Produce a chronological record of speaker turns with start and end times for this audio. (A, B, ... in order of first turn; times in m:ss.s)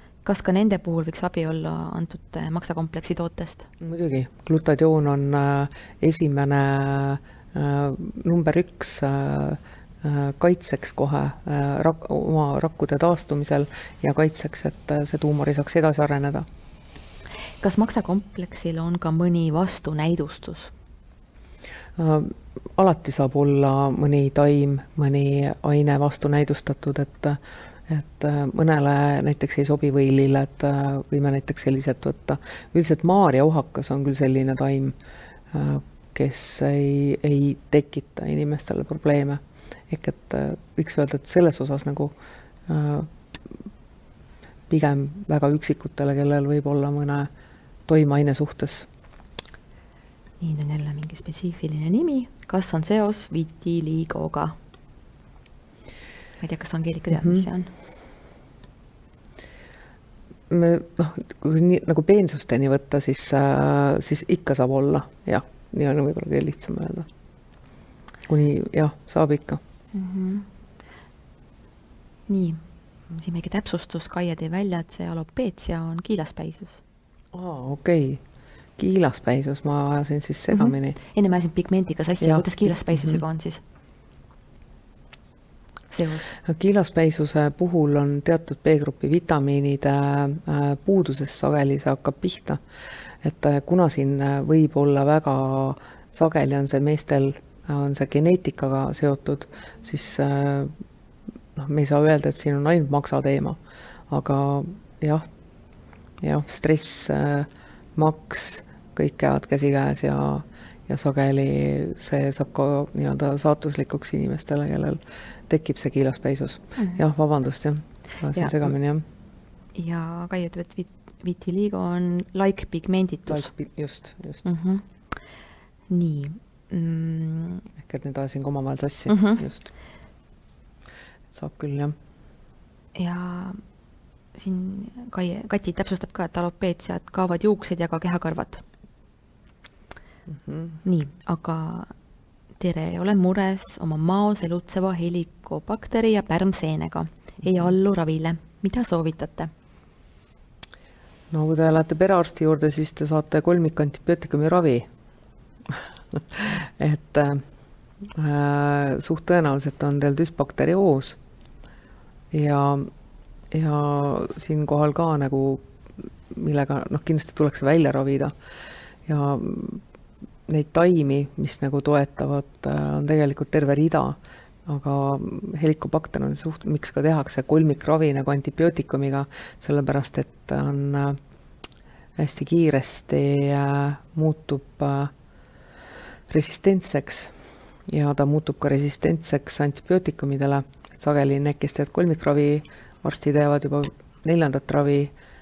0:00.2-0:03.7 A
0:03.8-0:16.4 B
0:17.6-0:20.7 A
0:22.0-0:34.9 B
0:35.5-0:42.1 B
0:42.7-0:43.5 B
0:44.7-0:47.3 B
0:47.9-0:48.9 B
0:50.4-0:54.6 A
0:56.4-0:57.7 A
0:57.1-0:57.4 B
1:00.5-1:07.1 B
1:08.3-1:09.6 B
1:09.9-1:10.5 A
1:12.3-1:16.8 A
1:17.3-1:18.2 B
1:18.8-1:21.0 B
1:20.5-1:23.6 A
1:22.2-1:23.2 B
1:25.9-1:26.3 A
1:26.4-1:32.6 B
1:33.2-1:40.7 B
1:41.6-1:43.6 B
1:44.1-1:45.2 B
1:46.2-1:59.0 B
1:59.7-2:03.5 A
2:03.3-2:04.4 B
2:04.4-2:04.8 A
2:05.9-2:07.6 A
2:07.8-2:09.7 B
2:09.1-2:09.4 A
2:11.3-2:12.0 B
2:12.9-2:13.6 A
2:14.3-2:18.6 A
2:20.3-2:20.8 B
2:20.8-2:21.9 A
2:22.6-2:29.5 A
2:31.3-2:34.9 B
2:35.7-2:37.4 B
2:38.0-2:41.2 B
2:42.3-2:42.9 B
2:43.5-2:48.3 B
2:49.0-2:49.8 B
2:50.5-3:01.2 B
3:02.2-3:05.1 B
3:06.3-3:07.3 B
3:07.9-3:15.1 B